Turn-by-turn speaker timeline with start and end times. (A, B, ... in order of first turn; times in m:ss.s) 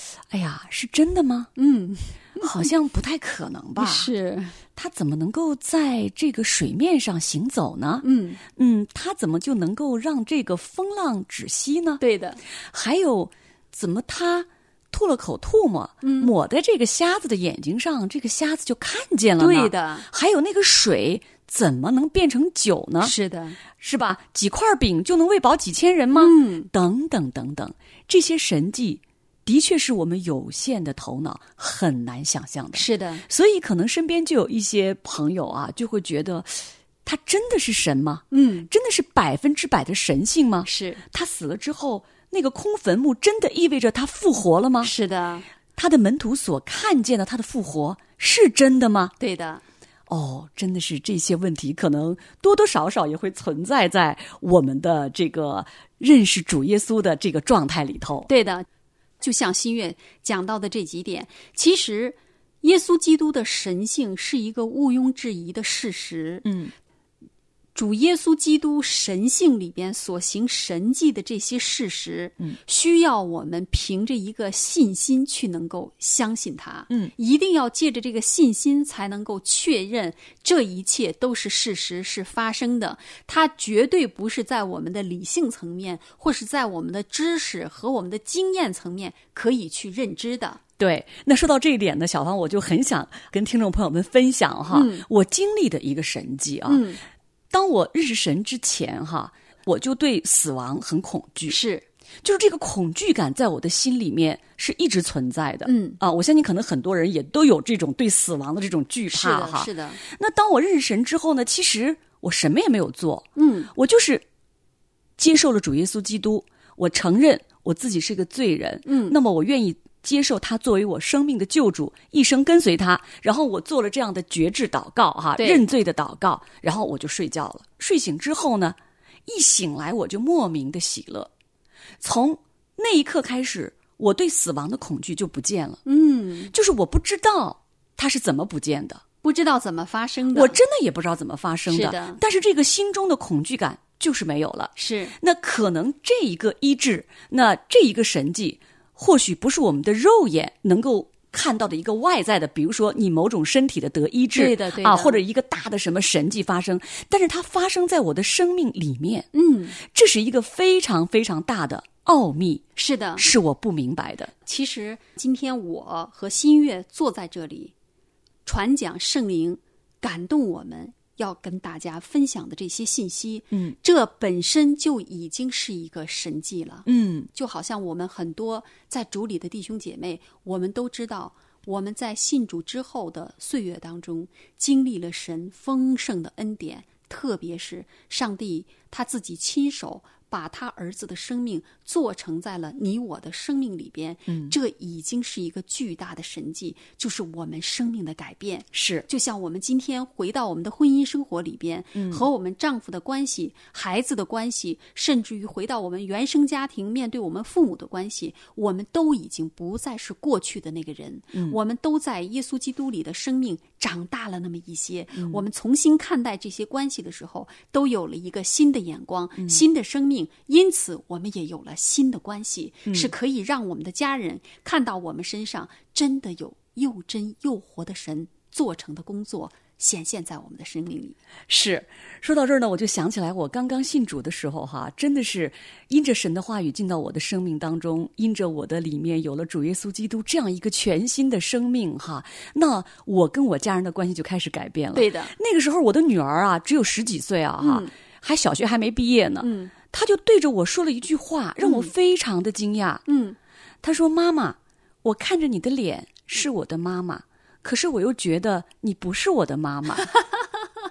0:00.3-0:01.5 A
0:01.6-0:02.7 B
0:02.4-0:04.1 A
0:03.8-0:04.6 B
0:04.7-0:12.0 A
0:08.0-0:08.4 B
0:12.0-0:12.4 B
0:12.7-0:23.1 A
0:16.0-0:16.3 B
0:19.4-0:20.1 B
0:23.0-0:23.6 B
0:23.8-0:44.9 A
0:26.1-0:26.7 B
0:32.7-0:33.2 B
0:38.3-0:38.7 B
0:40.6-0:41.0 B
0:44.8-0:45.5 B
0:45.8-0:49.1 A
0:49.2-0:49.6 B
0:50.1-0:58.3 A
0:58.3-0:58.7 B
0:59.2-1:06.5 B
1:06.4-1:06.7 A
1:07.8-1:30.6 B
1:30.8-1:36.8 A
1:34.7-1:35.0 B
1:36.7-1:37.0 B
1:37.5-1:41.6 A
1:41.5-1:41.8 B
1:42.2-1:54.2 A
1:45.7-1:46.0 B
1:49.1-1:50.0 B
1:53.4-1:53.7 B
1:55.2-2:11.3 A
1:58.9-1:59.2 B
2:05.4-2:05.6 B
2:12.0-2:15.8 A
2:15.9-2:16.5 B
2:16.5-2:19.0 A
2:19.2-2:20.6 B
2:20.3-2:42.7 A
2:21.7-2:22.2 B
2:24.8-2:25.2 B
2:34.4-2:35.2 B
2:39.3-2:39.8 B
2:42.8-2:43.3 B
2:43.2-2:44.3 A
2:44.4-2:47.7 B
2:48.4-3:51.2 B
2:53.5-2:53.8 A
2:56.9-2:57.3 A
3:14.3-3:14.6 A
3:18.7-3:19.1 A
3:22.0-3:22.2 A
3:35.2-3:35.4 A
3:51.5-4:13.0 A
4:04.9-4:05.3 B
4:07.6-4:07.9 B
4:09.4-4:09.7 B
4:11.6-4:11.9 B
4:13.1-4:13.4 B
4:13.8-4:20.1 A